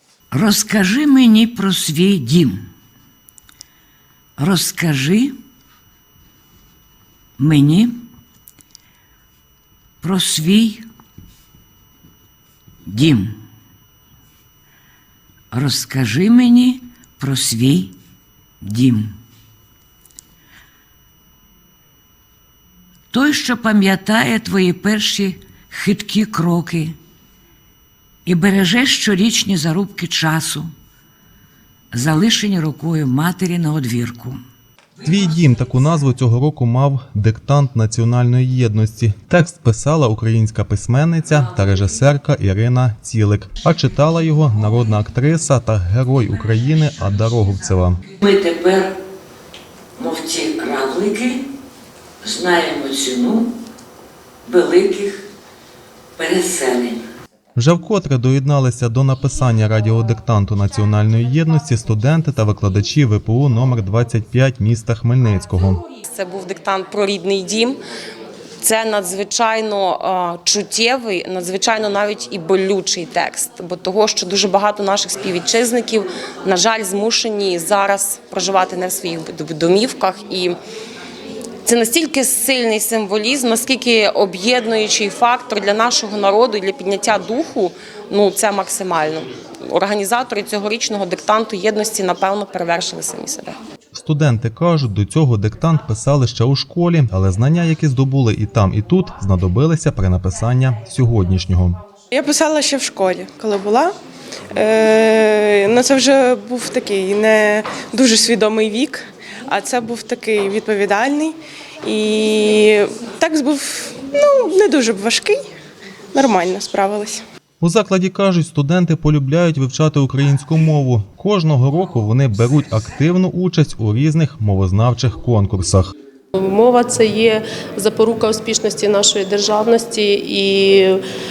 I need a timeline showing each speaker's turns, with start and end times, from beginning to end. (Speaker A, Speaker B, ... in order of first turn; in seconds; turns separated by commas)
Speaker A: 0.3-2.6, Speaker A: 4.4-5.3, Speaker A: 7.4-8.1, Speaker A: 10.0-10.8, Speaker A: 12.8-13.4, Speaker A: 15.5-17.9, Speaker A: 18.6-19.2, Speaker A: 23.1-26.9, Speaker A: 28.2-30.7, Speaker A: 31.9-34.4, Speaker B: 35.0-48.0, Speaker A: 48.1-48.9, Speaker A: 50.0-51.4, Speaker A: 52.2-53.5, Speaker A: 54.5-55.2, Speaker A: 56.2-57.0, Speaker B: 57.5-65.8, Speaker C: 66.0-67.8, Speaker C: 68.6-80.5, Speaker C: 81.6-93.6, Speaker B: 93.9-101.8, Speaker D: 102.1-103.9, Speaker D: 104.5-115.5, Speaker D: 116.1-117.2, Speaker B: 117.6-125.9, Speaker E: 126.3-131.0